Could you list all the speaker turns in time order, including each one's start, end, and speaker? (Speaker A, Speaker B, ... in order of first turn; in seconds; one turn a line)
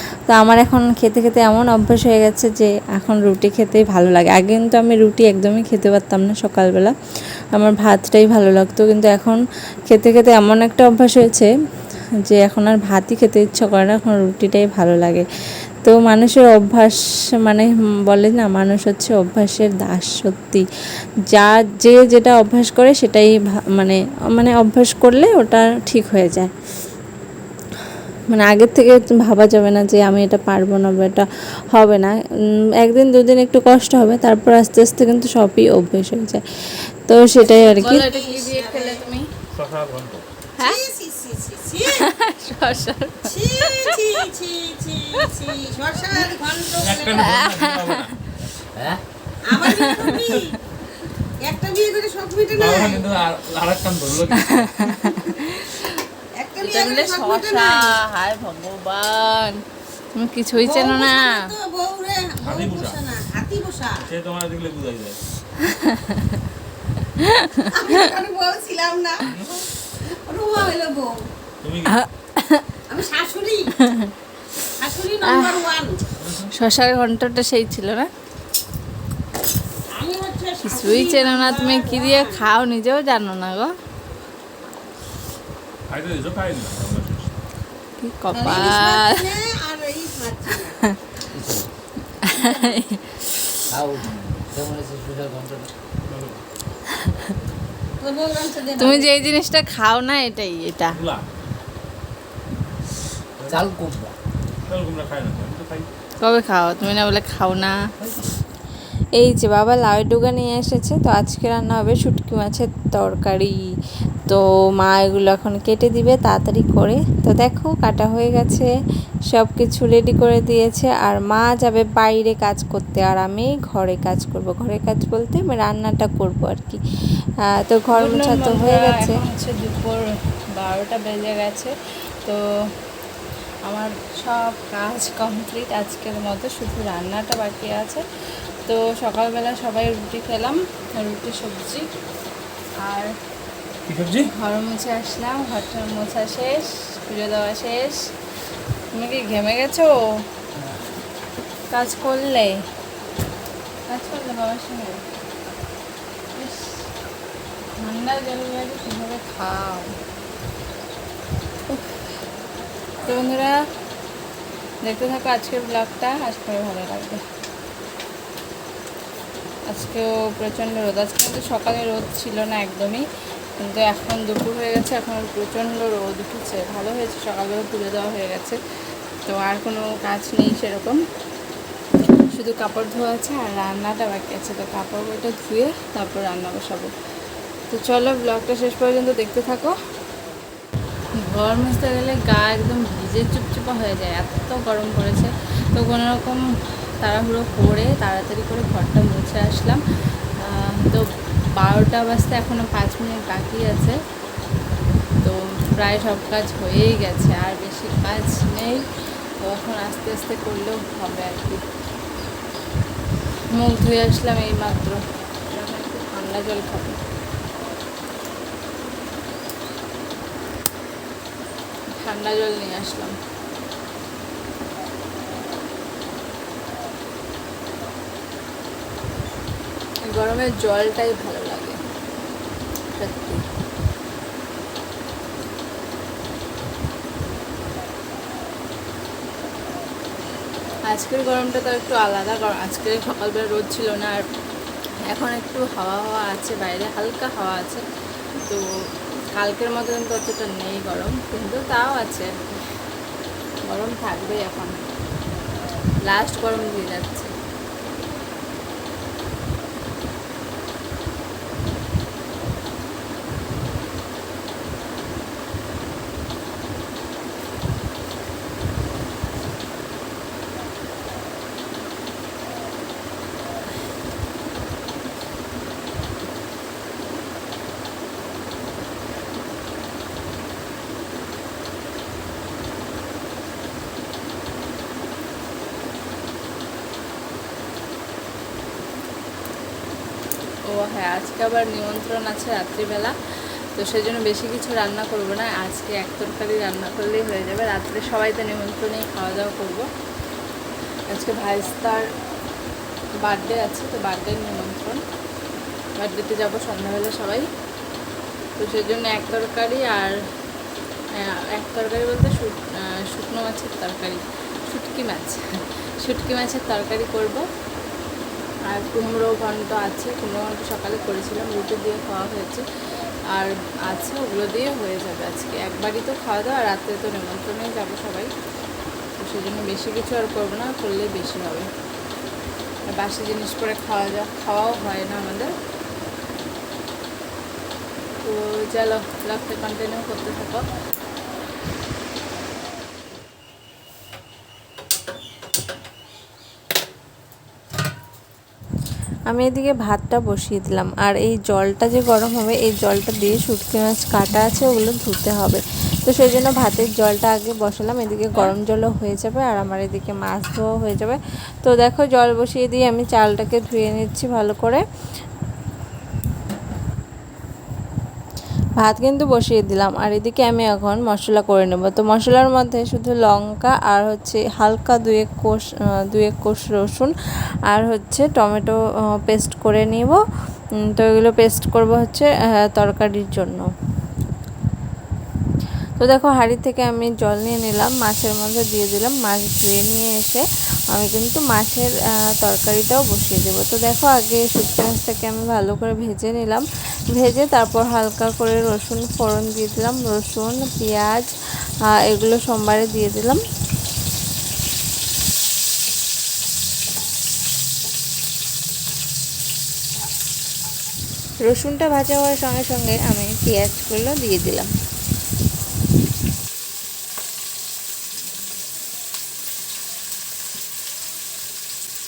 Speaker A: 0.3-7.0
Speaker A: 7.5-11.5
Speaker A: 12.2-15.3
Speaker A: 15.8-20.6
Speaker A: 21.3-26.5
Speaker A: 28.3-32.1
Speaker A: 32.8-38.0
Speaker B: 37.5-39.1
Speaker C: 37.6-39.3
Speaker D: 39.5-40.2
Speaker B: 40.6-42.1
Speaker C: 42.0-44.0
Speaker B: 43.2-47.4
Speaker D: 46.8-48.2
Speaker C: 47.2-48.0
Speaker E: 48.8-49.0
Speaker B: 49.5-50.5
Speaker C: 49.6-50.4
Speaker B: 51.4-53.2
Speaker D: 52.5-55.0
Speaker C: 54.8-55.9
Speaker B: 56.4-57.9
Speaker C: 56.6-59.6
Speaker C: 60.1-61.5
Speaker B: 60.6-64.0
Speaker D: 62.4-63.0
Speaker D: 64.0-65.2
Speaker C: 67.4-67.7
Speaker B: 67.7-69.3
Speaker D: 69.2-69.6
Speaker B: 70.0-71.1
Speaker D: 71.6-72.0
Speaker C: 71.9-72.6
Speaker B: 72.9-73.7
Speaker B: 74.7-76.0
Speaker C: 75.2-75.5
Speaker D: 76.2-76.5
Speaker C: 76.5-78.1
Speaker B: 79.9-82.5
Speaker C: 80.6-83.7
Speaker D: 85.9-87.3
Speaker C: 88.0-89.2
Speaker B: 88.3-90.8
Speaker E: 91.3-91.7
Speaker C: 92.2-93.2
Speaker E: 93.7-95.7
Speaker D: 96.0-96.4
Speaker B: 98.0-99.3
Speaker C: 98.8-101.0
Speaker D: 100.9-101.2
Speaker D: 103.4-103.6
Speaker E: 103.5-104.1
Speaker D: 104.7-105.9
Speaker C: 106.2-107.8
Speaker A: 109.2-113.6
Speaker A: 114.3-118.7
Speaker A: 119.3-126.8
Speaker A: 127.4-129.2
Speaker C: 127.9-132.4
Speaker C: 133.7-138.0
Speaker C: 138.7-141.9
Speaker C: 142.8-143.1
Speaker D: 143.9-144.3
Speaker C: 144.2-148.1
Speaker C: 148.9-150.0
Speaker C: 151.7-152.6
Speaker C: 153.9-155.0
Speaker C: 156.3-156.7
Speaker C: 157.8-159.9
Speaker C: 161.7-162.1
Speaker C: 163.0-163.6
Speaker C: 164.8-167.2
Speaker C: 169.7-173.0
Speaker C: 173.6-178.6
Speaker C: 179.3-181.0
Speaker C: 182.3-186.9
Speaker C: 187.7-189.8
Speaker C: 191.2-196.4
Speaker C: 197.0-199.8
Speaker C: 200.4-204.0
Speaker C: 205.2-208.8
Speaker C: 209.4-211.6
Speaker C: 213.5-217.0
Speaker C: 222.0-223.2
Speaker C: 230.1-231.8
Speaker C: 232.9-233.4
Speaker C: 240.9-244.2
Speaker C: 245.1-247.8
Speaker C: 249.3-252.5
Speaker C: 253.7-254.8
Speaker C: 256.1-257.3
Speaker C: 290.7-293.1
Speaker C: 293.7-299.9
Speaker C: 301.1-302.1
Speaker C: 303.2-305.0
Speaker C: 306.0-307.5
Speaker C: 308.6-310.2
Speaker C: 311.2-317.4
Speaker C: 318.6-322.6
Speaker C: 323.3-328.3
Speaker C: 329.2-331.7
Speaker C: 332.9-335.5
Speaker C: 338.2-340.6
Speaker A: 349.3-364.8
Speaker A: 368.8-377.1
Speaker A: 377.7-380.2
Speaker A: 380.8-383.7
Speaker A: 386.0-401.3
Speaker A: 401.9-403.4
Speaker A: 411.4-414.7